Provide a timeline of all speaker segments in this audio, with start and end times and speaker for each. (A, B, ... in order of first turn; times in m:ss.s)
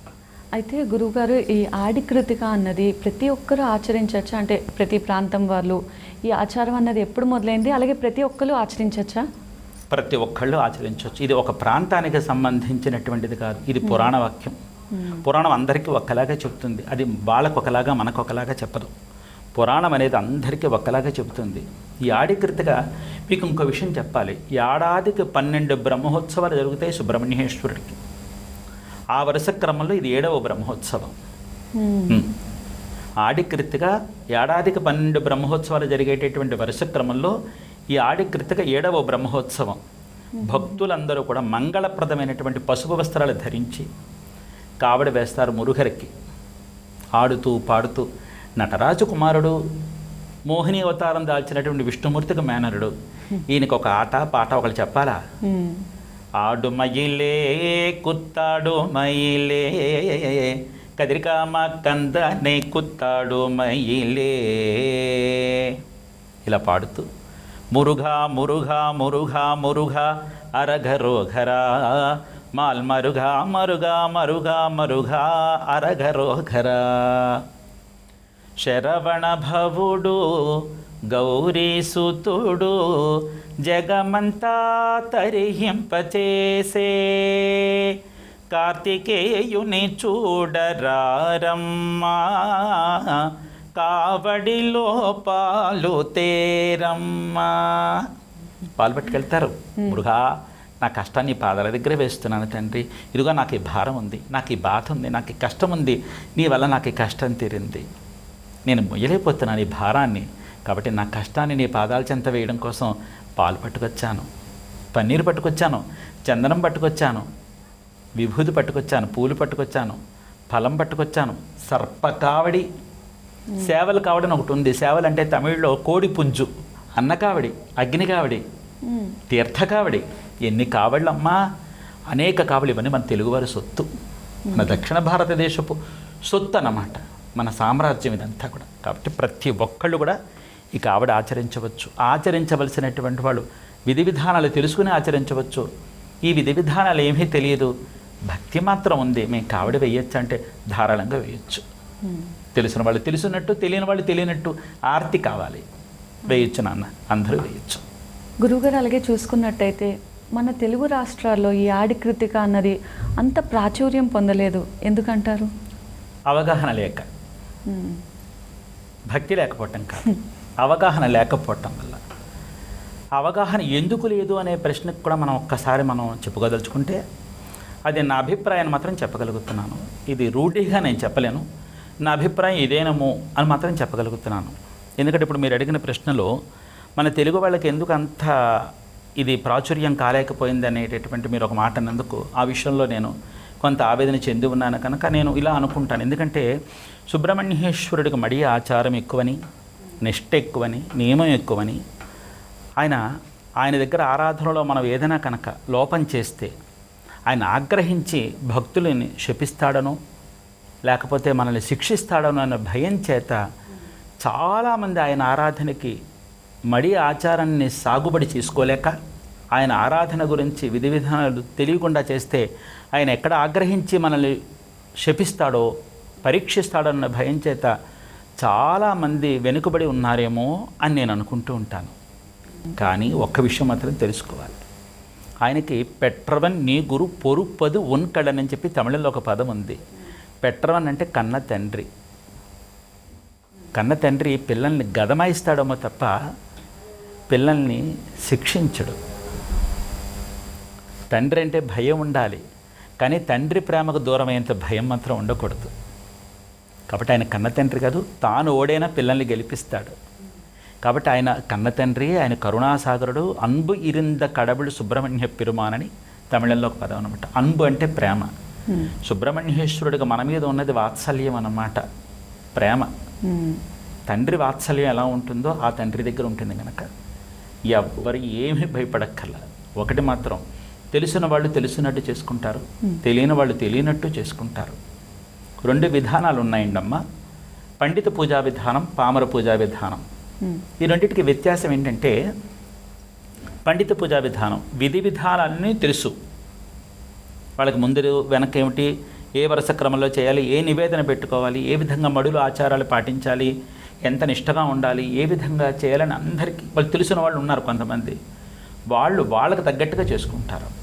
0:00.6-0:09.2 A
0:09.9-0:14.6 B
0:13.8-0:14.1 A
0:15.0-0:15.2 A
0:15.2-0:18.9 B
0:19.6-0:28.0 B
0:29.1-0:31.2 B
0:31.7-0:32.2 A
0:33.2-0:37.3 B
0:37.9-0:39.8 B
0:40.4-0:40.8 A
0:40.4-0:43.8 B
0:44.8-0:46.1 B
0:47.2-0:48.0 B
0:48.6-0:49.6 B
0:50.5-0:52.9 B
0:53.5-0:55.2 B
0:55.4-0:55.8 A
0:56.4-1:05.8 B
1:06.4-1:07.1 B
1:07.7-1:17.4 B
1:18.6-1:28.0 B
1:28.5-1:38.1 B
1:38.8-1:47.8 B
1:48.7-1:54.3 B
1:54.9-1:57.2 B
1:58.2-2:00.0 B
2:00.5-2:02.7 B
2:03.6-2:08.4 B
2:08.8-2:09.2 A
2:09.3-2:11.4 B
2:12.1-2:13.9 B
2:14.5-2:14.8 A
2:14.5-2:15.8 B
2:16.3-2:20.2 B
2:20.8-2:25.7 B
2:26.2-2:27.7 B
2:28.3-2:31.6 B
2:32.0-2:32.3 A
2:32.6-2:35.6 B
2:36.3-2:37.8 B
2:38.4-2:45.5 A
2:46.3-2:47.1 B
2:47.7-2:48.0 A
2:49.1-2:52.0 B
2:53.2-2:57.0 B
2:57.9-3:01.4 B
3:02.1-3:06.3 B
3:07.0-3:08.3 B
3:09.2-3:16.5 B
3:17.1-3:19.4 B
3:20.0-3:21.8 B
3:23.6-3:26.5 B
3:27.3-3:30.0 B
3:30.9-3:33.4 B
3:34.2-3:36.0 B
3:36.7-3:38.9 B
3:39.6-3:44.4 B
3:45.0-3:45.7 B
3:46.2-3:47.7 B
3:48.4-3:51.9 B
3:52.8-3:54.6 B
3:55.4-3:59.8 B
4:00.4-4:01.9 B
4:03.8-4:06.2 B
4:07.3-4:09.0 B
4:11.1-4:12.4 B
4:13.0-4:15.7 B
4:16.9-4:19.9 B
4:20.8-4:28.3 B
4:28.7-4:28.9 A
4:29.0-4:31.8 B
4:32.5-4:32.9 B
4:33.2-4:33.6 A
4:34.1-4:36.9 B
4:37.7-4:40.4 B
4:40.9-4:44.8 B
4:45.6-4:47.0 B
4:47.8-4:50.0 B
4:50.8-4:52.1 B
4:53.7-4:56.1 B
4:57.6-5:03.5 B
5:04.1-5:08.2 B
5:08.9-5:10.7 B